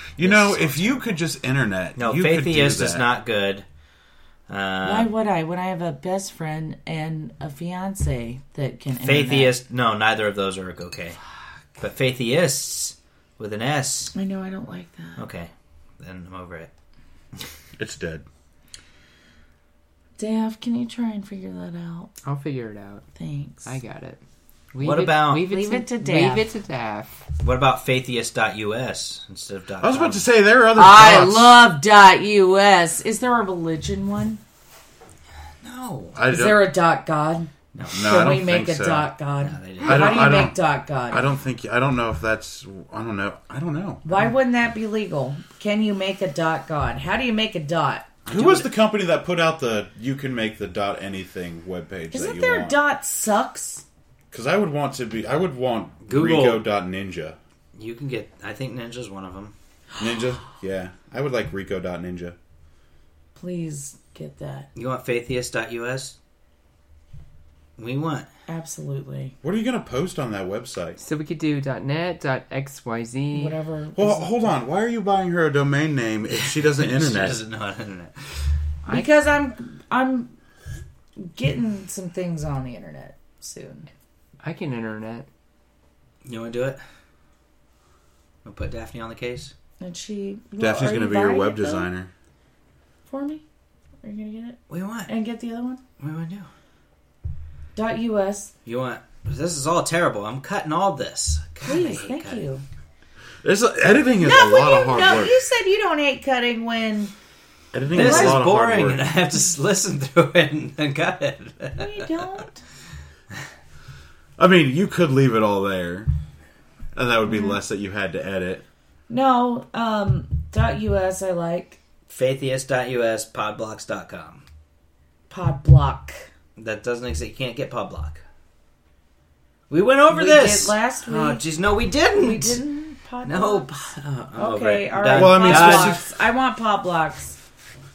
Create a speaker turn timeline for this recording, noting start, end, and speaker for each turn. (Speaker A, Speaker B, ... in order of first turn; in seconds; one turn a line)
Speaker A: 0.2-3.1
Speaker B: 0.2-1.2
Speaker B: 2.0-3.6
Speaker B: 4.5-5.1
Speaker C: 4.8-9.6
Speaker B: 9.0-11.2
Speaker B: 11.8-14.1
Speaker C: 14.1-15.2
Speaker B: 15.2-16.7
Speaker A: 17.8-18.3
Speaker C: 20.2-22.1
Speaker D: 22.2-23.1
Speaker C: 23.2-23.8
Speaker D: 23.6-24.2
Speaker D: 24.7-27.2
Speaker B: 24.8-25.5
Speaker C: 25.4-26.5
Speaker B: 27.4-30.3
Speaker A: 29.8-31.6
Speaker C: 30.8-34.4
Speaker B: 35.6-36.2
Speaker A: 36.1-36.7
Speaker C: 36.3-41.3
Speaker B: 37.8-38.1
Speaker A: 37.9-39.1
Speaker B: 39.4-40.3
Speaker A: 39.8-44.0
Speaker C: 44.0-48.1
Speaker A: 48.3-52.8
Speaker B: 48.3-48.7
Speaker C: 52.1-53.8
Speaker A: 54.3-57.4
Speaker B: 56.0-56.6
Speaker B: 57.8-59.5
Speaker A: 60.0-62.4
Speaker C: 63.4-64.7
Speaker B: 64.8-66.2
Speaker B: 67.8-68.3
Speaker C: 68.5-69.3
Speaker A: 69.4-71.0
Speaker D: 71.0-73.6
Speaker C: 73.3-74.5
Speaker A: 74.0-77.4
Speaker B: 76.3-78.1
Speaker C: 78.9-80.3
Speaker C: 81.2-83.9
Speaker D: 84.4-85.3
Speaker B: 86.2-86.8
Speaker B: 88.5-89.5
Speaker C: 89.8-91.9
Speaker A: 90.6-92.1
Speaker C: 93.1-93.4
Speaker C: 94.0-95.8
Speaker B: 94.7-95.1
Speaker B: 96.0-96.5
Speaker C: 97.8-98.5
Speaker B: 98.7-102.4
Speaker C: 101.6-102.6
Speaker A: 103.4-105.4
Speaker C: 104.2-107.1
Speaker A: 107.7-109.0
Speaker B: 107.9-112.2
Speaker C: 107.9-108.4
Speaker C: 111.8-112.6
Speaker A: 114.4-116.1
Speaker A: 117.0-118.6
Speaker C: 119.1-121.8
Speaker B: 122.1-124.4
Speaker C: 125.3-126.2
Speaker B: 126.6-128.2
Speaker B: 129.7-132.6
Speaker C: 130.1-131.4
Speaker C: 132.2-133.8
Speaker B: 133.2-136.0
Speaker C: 134.3-137.4
Speaker A: 135.1-136.1